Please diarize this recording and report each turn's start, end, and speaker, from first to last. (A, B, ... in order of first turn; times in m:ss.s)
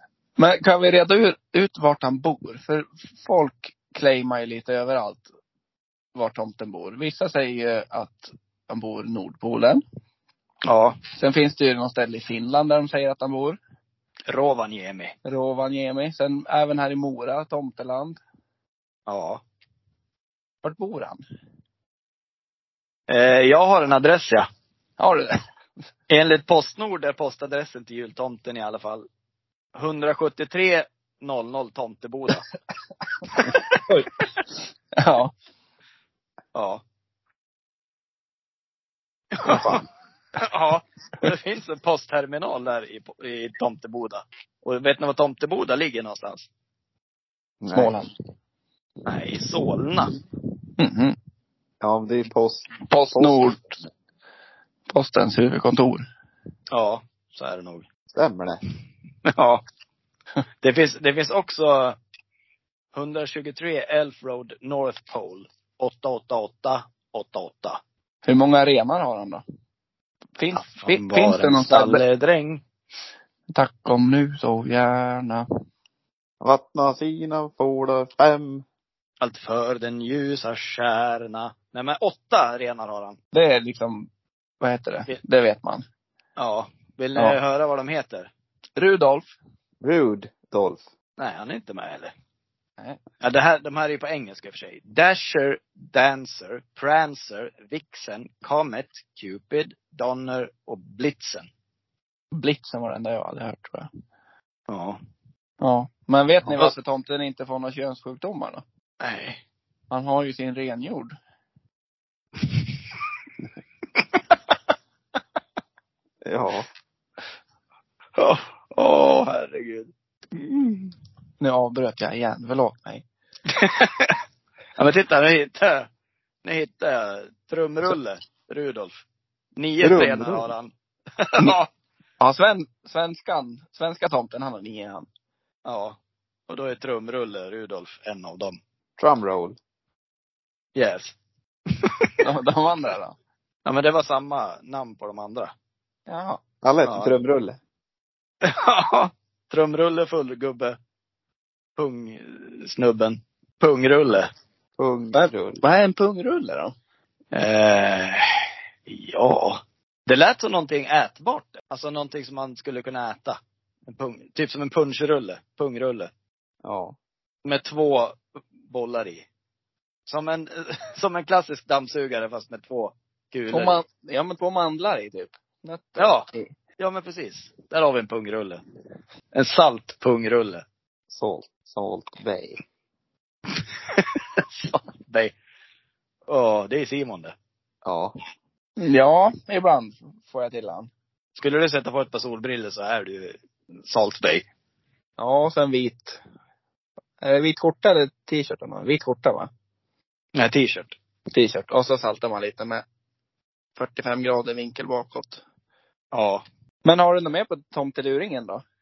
0:00.4-0:05.3 A
0:06.2-0:09.8 A
0:10.6-0:11.0 B
0:11.2-0:13.6 A
0:14.3-0:15.2 B
0:15.2-0:18.2 A
0:19.1-0:19.4 B
0:20.6-0:21.2 A
0:23.1-0:24.5 B
0:25.0-0:25.4 A
0:26.1-0:29.1 B
0:29.8-0:32.5 B
0:33.3-0:33.8 B
0:35.0-0:35.3 A
0:36.5-0:36.8 B
0:39.4-0:39.8 B
0:40.4-0:46.5 B
0:47.6-0:48.0 C
0:47.7-0:48.1 A
0:49.0-0:50.1 B
0:50.8-0:51.2 A
0:51.8-0:53.6 C
0:52.9-0:53.8 A
0:54.9-0:56.0 A
0:56.7-0:57.9 B
0:58.1-0:58.6 C
0:59.3-0:59.6 B
1:00.6-1:02.0 B
1:02.9-1:07.8 B
1:08.2-1:09.4 A
1:10.4-1:12.0 A
1:10.6-1:12.6 B
1:13.5-1:15.5 A
1:16.4-1:18.6 C
1:19.2-1:23.2 B
1:23.3-1:24.1 A
1:24.6-1:25.8 A
1:26.4-1:28.3 B
1:28.8-1:29.3 A
1:29.8-1:30.9 C
1:31.2-1:32.1 B
1:33.2-1:41.5 B
1:42.3-1:43.9 A
1:44.7-1:45.0 B
1:45.6-1:48.6 A
1:49.0-1:49.4 B
1:49.9-1:51.2 A
1:56.2-1:56.7 C
1:58.2-2:00.9 B
2:01.4-2:03.0 A
2:03.5-2:04.2 B
2:04.8-2:05.9 B
2:06.4-2:09.0 B
2:09.6-2:11.7 B
2:09.8-2:10.5 C
2:12.2-2:15.1 A
2:15.6-2:16.0 B
2:16.5-2:18.6 B
2:19.0-2:19.6 C
2:20.8-2:21.2 B
2:21.7-2:22.1 B
2:22.2-2:23.2 A
2:23.6-2:25.5 B
2:26.1-2:26.4 A
2:26.6-2:27.6 C
2:26.8-2:27.1 B
2:28.4-2:30.8 B
2:31.8-2:34.3 B
2:34.8-2:35.6 C
2:35.1-2:36.7 A
2:37.3-2:46.1 B
2:46.6-2:47.0 C
2:47.4-2:49.2 B
2:50.1-2:53.8 B
2:53.5-2:56.5 A
2:56.0-2:56.3 B
2:56.8-2:58.6 B
2:59.3-3:00.6 B
3:01.1-3:02.6 C
3:03.9-3:05.3 B
3:06.3-3:07.4 B
3:07.8-3:08.1 C
3:08.8-3:10.9 A
3:11.4-3:14.5 B
3:15.2-3:16.2 A
3:17.2-3:19.5 A
3:20.4-3:21.0 B
3:21.3-3:22.8 A
3:23.8-3:25.4 A
3:26.1-3:26.4 B
3:26.8-3:28.6 A